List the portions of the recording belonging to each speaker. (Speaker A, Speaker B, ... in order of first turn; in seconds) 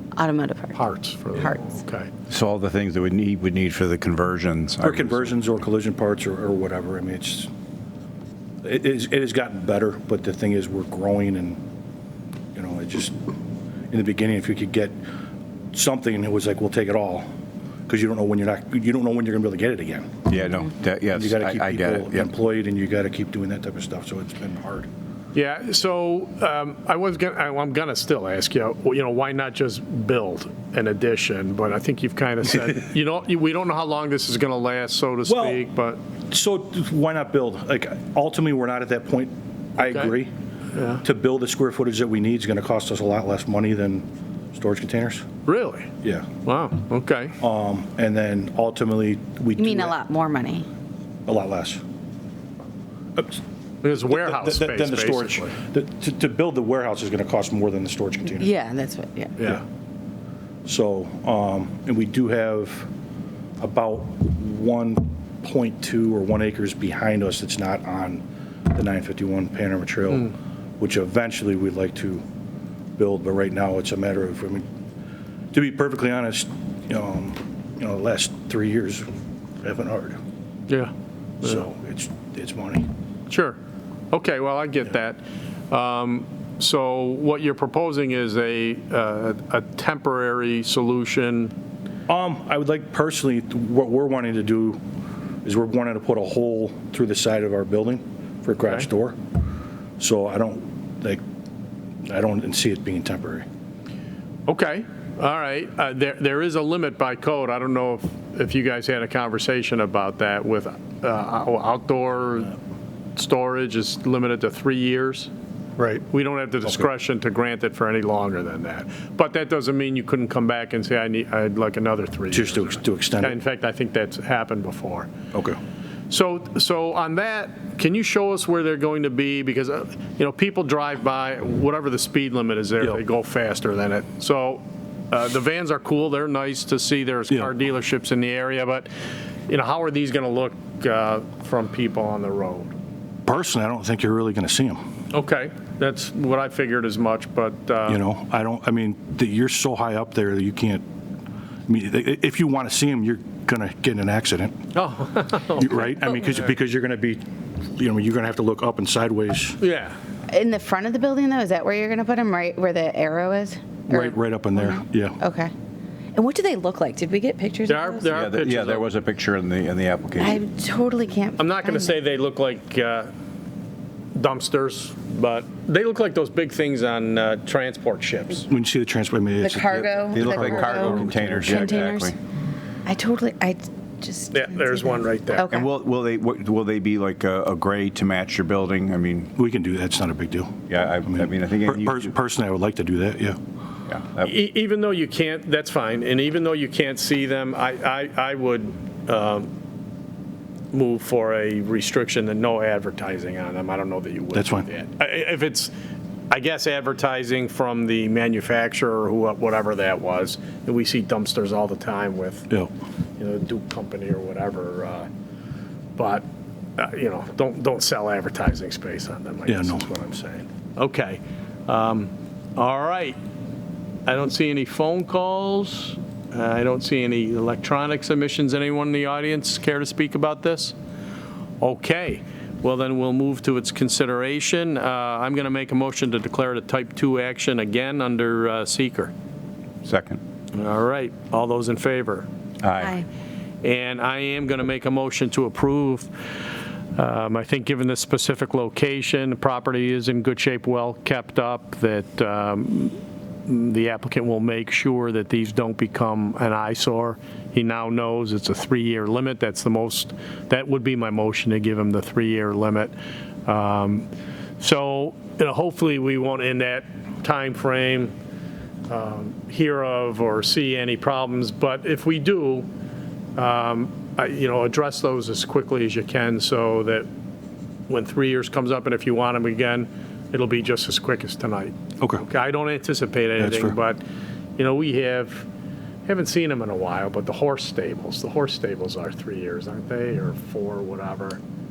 Speaker A: 0.2-0.8, 49.6-50.7, 58.4-59.4, 160.3-165.5, 166.2-168.2, 170.2-171.9, 179.4-182.1, 182.9-185.7, 242.8-243.1
Speaker B: 0.7-2.1, 25.3-36.0, 39.8-40.1, 40.8-41.0, 45.5-45.9, 46.5-47.4, 53.8-55.5, 83.3-83.6, 84.1-91.5, 104.5-112.5, 113.2-125.1, 126.1-138.9, 139.5-142.7, 145.1-148.0, 154.7-156.5, 159.6-160.0, 167.7-168.9, 171.4-173.1, 174.2-178.5, 184.3-185.5, 194.2-199.5, 200.7-205.7, 206.3-212.5, 213.2-215.1, 216.0-216.2, 216.8-223.2, 224.1-230.8, 231.6-239.1, 240.5-242.3, 243.6-246.1, 246.9-262.9, 263.5-264.1, 264.6-268.1, 268.9-272.7, 273.4-277.1, 277.9-284.0, 284.6-285.5, 286.1-291.4
Speaker C: 2.3-5.4, 20.3-22.3, 168.1-170.4, 179.7-182.2, 185.5-189.3, 190.7-192.1, 193.9-194.3, 239.8-240.2, 242.6-243.0
Speaker D: 4.8-7.5, 8.6-11.6, 12.6-13.2, 13.9-15.0, 15.7-17.3, 17.9-20.3, 21.1-24.9, 35.3-35.6, 36.3-40.3, 41.0-45.3, 46.0-46.3, 47.4-50.0, 51.3-51.8, 54.0-58.5, 60.6-62.9, 63.6-72.2, 73.0-74.7, 75.5-79.1, 79.6-80.2, 81.4-82.9, 92.1-94.8, 95.5-99.2, 100.0-101.2, 102.0-103.5, 122.3-123.4, 125.3-125.6, 143.3-144.8, 147.9-150.8, 151.7-154.6, 155.6-159.6, 163.9-165.2, 178.5-181.1, 189.4-193.4, 204.3-204.7, 219.5-219.9, 283.4-283.8